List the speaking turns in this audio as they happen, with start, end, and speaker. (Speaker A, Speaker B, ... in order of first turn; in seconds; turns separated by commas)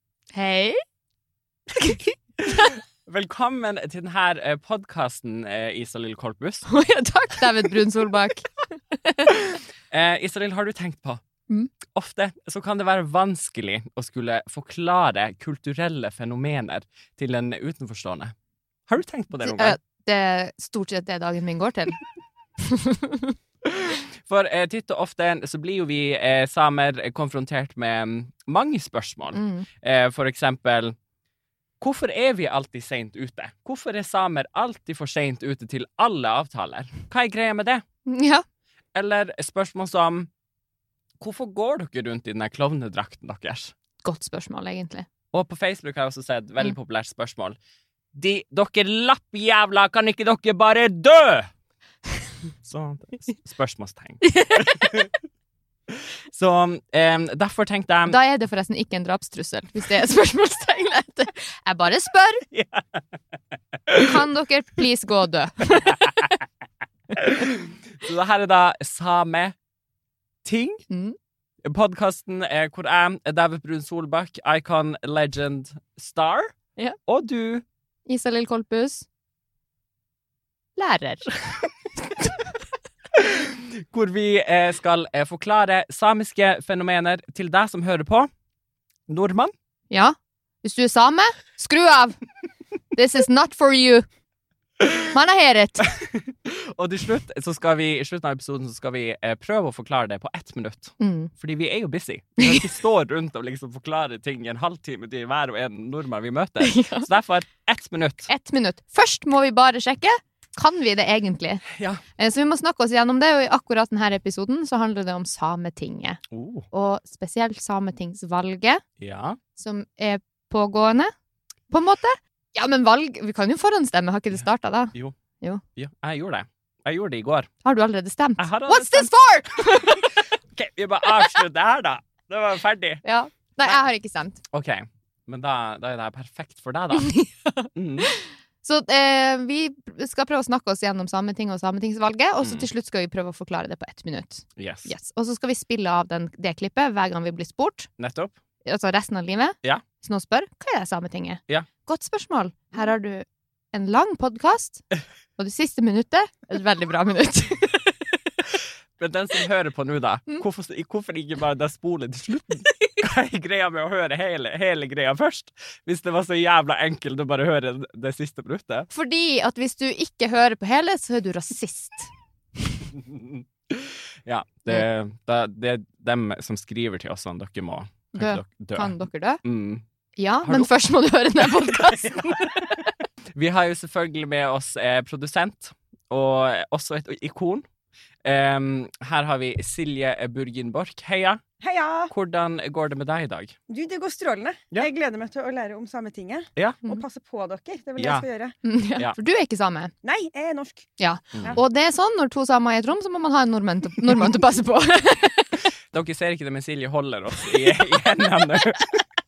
Speaker A: 0.3-0.8, Speaker A: 1.8-2.8, Speaker B: 2.5-6.7, Speaker A: 6.7-8.5, Speaker A: 9.1-9.3, Speaker B: 9.3-11.2, Speaker B: 11.8-18.4, Speaker B: 18.9-19.8, Speaker A: 19.4-22.0, Speaker A: 22.6-23.4, Speaker B: 23.6-31.0, Speaker A: 29.3-29.7, Speaker B: 31.8-37.8, Speaker A: 38.1-38.4, Speaker B: 38.9-40.3, Speaker B: 41.2-43.7, Speaker A: 44.0-45.1, Speaker B: 45.3-47.6, Speaker B: 48.1-51.5, Speaker B: 52.6-55.1, Speaker A: 54.2-55.0, Speaker B: 55.9-58.2, Speaker A: 58.1-62.5, Speaker B: 62.5-63.0, Speaker B: 63.9-64.2, Speaker A: 64.0-66.2, Speaker B: 65.9-66.4, Speaker B: 67.1-69.5, Speaker B: 70.4-70.8, Speaker A: 70.9-71.2, Speaker B: 71.6-76.5, Speaker B: 77.1-77.7, Speaker A: 78.1-79.1, Speaker A: 80.8-81.6, Speaker B: 83.1-88.3, Speaker B: 89.1-89.5, Speaker A: 89.9-92.2, Speaker A: 92.9-94.1, Speaker B: 94.8-95.1, Speaker A: 95.1-95.9, Speaker B: 95.8-108.3, Speaker A: 101.0-101.3, Speaker A: 106.6-107.1, Speaker A: 108.3-111.7, Speaker B: 111.7-112.0, Speaker A: 112.2-118.8, Speaker B: 116.3-116.7, Speaker B: 119.0-119.4, Speaker A: 119.6-121.1, Speaker A: 121.7-125.6, Speaker B: 125.8-127.5, Speaker A: 127.6-130.2, Speaker B: 128.4-129.1, Speaker B: 129.9-133.0, Speaker A: 133.0-134.4, Speaker B: 134.5-137.1, Speaker A: 136.9-147.9, Speaker B: 137.7-138.1, Speaker B: 142.4-142.7, Speaker B: 144.6-144.9, Speaker B: 148.0-148.4, Speaker A: 148.7-154.9, Speaker A: 155.4-158.3, Speaker B: 159.0-168.9, Speaker A: 168.9-172.1, Speaker B: 172.9-179.8, Speaker A: 178.1-179.4, Speaker A: 180.2-182.9, Speaker B: 180.4-180.7, Speaker B: 181.6-182.5, Speaker B: 183.3-187.7, Speaker B: 188.2-191.4, Speaker C: 191.6-192.1, Speaker B: 192.1-193.6, Speaker C: 193.7-198.6, Speaker B: 196.6-196.9, Speaker B: 198.0-198.2, Speaker A: 198.6-199.9, Speaker C: 200.0-201.6, Speaker A: 201.0-205.7, Speaker B: 201.3-201.6, Speaker B: 205.9-209.1